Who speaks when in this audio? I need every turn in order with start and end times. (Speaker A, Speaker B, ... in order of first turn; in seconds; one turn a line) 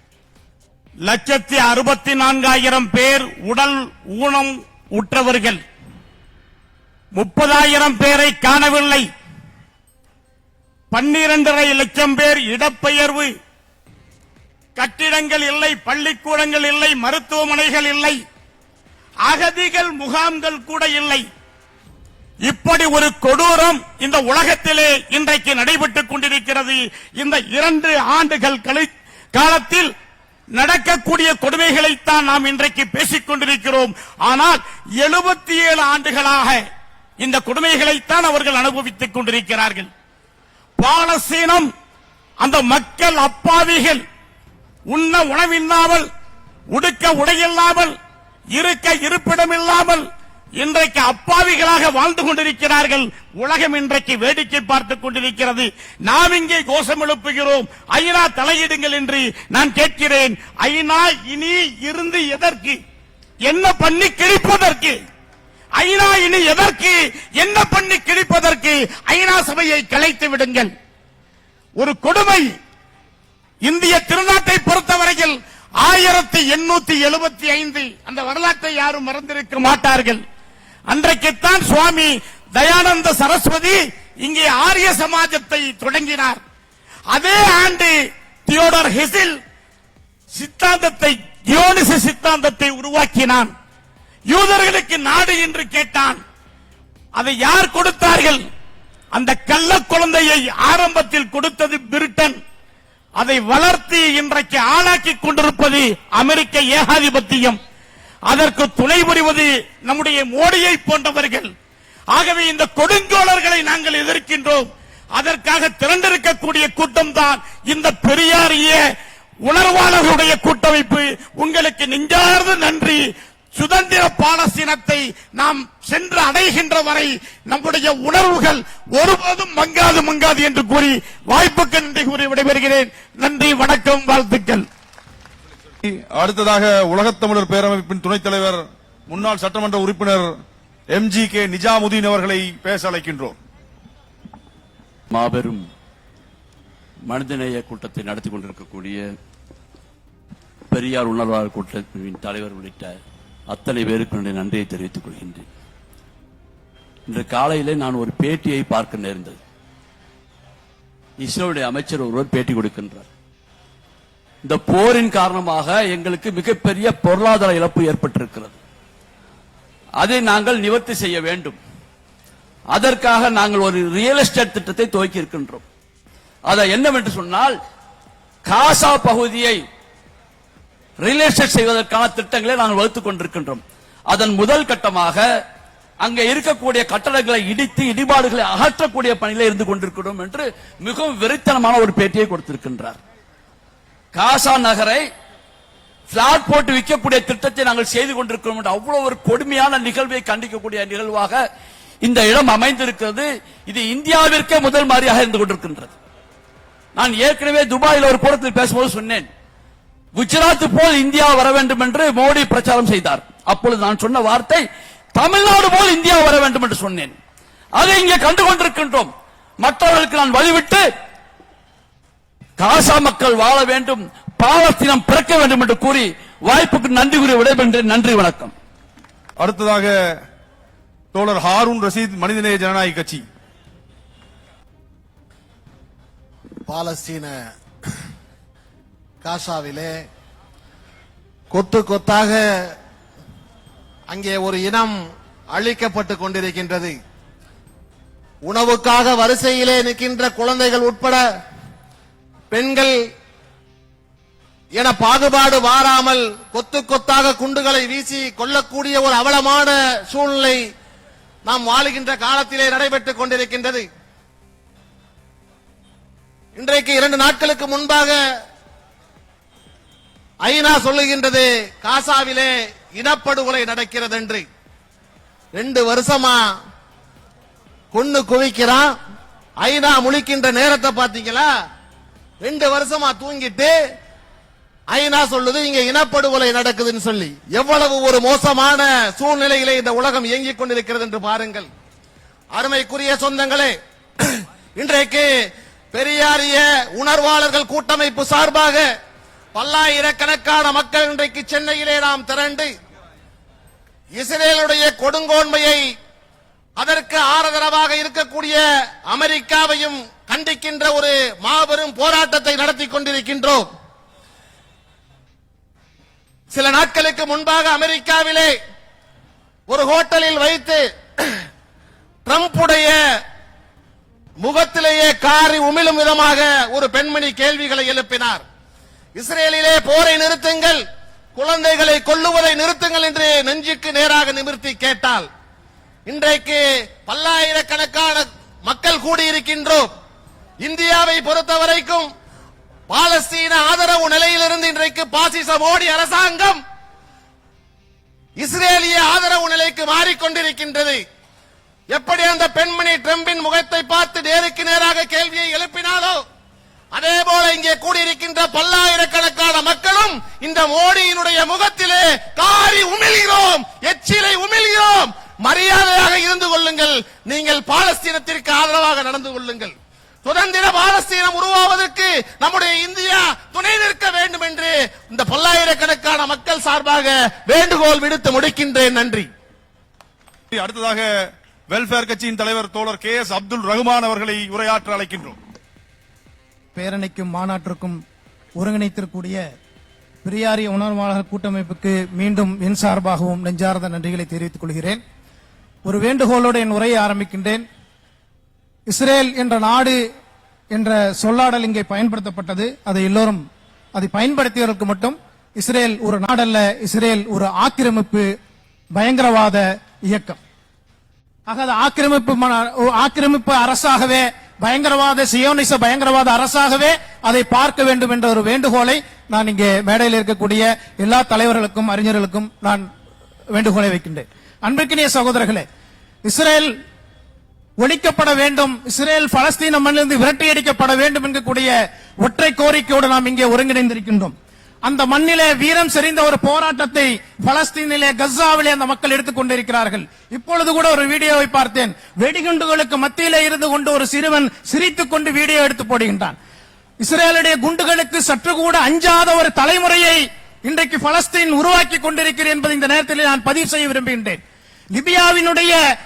Speaker A: 1.1-5.6
Speaker A: 7.2-9.1
Speaker A: 10.9-13.3
Speaker A: 14.8-18.2
Speaker A: 19.2-21.2
Speaker A: 22.4-29.9
Speaker A: 30.6-36.6
Speaker A: 37.2-39.9
Speaker A: 40.8-41.7
Speaker A: 42.4-44.0
Speaker A: 44.9-46.1
Speaker A: 46.7-47.9
Speaker A: 48.5-50.0
Speaker A: 50.6-62.8
Speaker A: 63.5-65.0
Speaker A: 65.8-70.7
Speaker A: 71.8-72.5
Speaker A: 73.6-80.2
Speaker A: 80.9-86.4
Speaker A: 87.1-88.0
Speaker A: 88.5-89.4
Speaker A: 90.3-93.5
Speaker A: 94.3-96.2
Speaker A: 97.2-98.4
Speaker A: 99.1-102.3
Speaker A: 103.2-107.6
Speaker A: 108.3-111.5
Speaker A: 112.1-118.8
Speaker A: 119.5-123.0
Speaker A: 123.5-134.7
Speaker B: 135.8-140.3
Speaker B: 140.9-143.3
Speaker C: 145.2-145.6
Speaker D: 147.2-148.8
Speaker C: 147.2-148.9
Speaker D: 150.8-152.8
Speaker C: 150.8-152.8
Speaker C: 153.6-155.3
Speaker D: 153.7-155.3
Speaker D: 157.2-159.2
Speaker C: 157.2-159.3
Speaker D: 161.3-162.9
Speaker C: 161.6-162.5
Speaker D: 164.5-168.4
Speaker C: 164.7-168.5
Speaker D: 170.1-171.5
Speaker C: 170.1-171.6
Speaker D: 172.8-175.5
Speaker C: 172.8-173.5
Speaker C: 174.0-175.3
Speaker D: 176.5-177.4
Speaker C: 176.6-177.5
Speaker D: 178.5-179.4
Speaker C: 178.6-179.5
Speaker D: 181.1-183.5
Speaker C: 181.2-183.6
Speaker D: 184.2-185.1
Speaker C: 184.2-185.1
Speaker D: 186.1-190.4
Speaker C: 186.1-190.4
Speaker D: 190.9-192.8
Speaker C: 190.9-192.9
Speaker D: 194.2-194.7
Speaker C: 194.2-195.0
Speaker D: 196.2-199.8
Speaker C: 196.3-201.3
Speaker D: 200.7-201.2
Speaker D: 202.1-203.2
Speaker C: 202.2-203.2
Speaker C: 203.8-205.9
Speaker D: 203.8-205.7
Speaker D: 207.0-209.0
Speaker C: 207.1-209.2
Speaker D: 210.2-214.4
Speaker C: 210.3-214.6
Speaker D: 215.2-216.9
Speaker C: 215.2-217.1
Speaker C: 217.8-219.1
Speaker D: 217.9-218.9
Speaker D: 219.7-220.7
Speaker C: 219.7-220.7
Speaker D: 222.7-223.8
Speaker C: 222.8-223.9
Speaker D: 224.4-226.0
Speaker C: 224.6-226.0
Speaker D: 226.5-228.5
Speaker C: 226.7-227.9
Speaker B: 229.4-229.9
Speaker B: 231.1-233.2
Speaker C: 236.7-237.3
Speaker C: 239.2-239.9
Speaker C: 241.5-242.4
Speaker C: 244.1-244.9
Speaker C: 245.5-246.9
Speaker C: 248.4-251.2
Speaker C: 252.5-253.0
Speaker C: 254.8-260.6
Speaker C: 261.4-263.9
Speaker C: 266.6-268.2
Speaker C: 270.4-274.4
Speaker C: 275.6-276.4
Speaker C: 277.9-278.9
Speaker C: 279.6-281.5
Speaker C: 282.4-283.8
Speaker C: 284.9-291.7
Speaker C: 292.5-295.3
Speaker C: 295.9-298.9
Speaker C: 299.5-302.7
Speaker C: 304.1-305.9
Speaker C: 306.8-313.7
Speaker C: 316.5-318.6
Speaker C: 319.7-321.4
Speaker C: 322.3-323.2
Speaker C: 324.4-328.4
Speaker C: 329.1-330.8
Speaker C: 331.4-335.3
Speaker C: 336.1-339.9
Speaker C: 340.6-342.1
Speaker C: 342.9-346.6
Speaker C: 348.4-351.0
Speaker C: 351.9-356.2
Speaker C: 356.9-369.7
Speaker C: 370.2-379.3
Speaker B: 380.5-381.1
Speaker B: 381.7-385.4
Speaker E: 386.8-388.0
Speaker E: 388.6-389.4
Speaker E: 390.2-395.0
Speaker E: 395.8-397.6
Speaker E: 398.9-400.0
Speaker E: 400.7-408.3
Speaker E: 408.9-410.4
Speaker E: 411.5-422.9
Speaker E: 423.5-425.6
Speaker E: 426.2-426.7
Speaker E: 427.8-446.4
Speaker E: 447.0-454.4
Speaker E: 454.9-455.8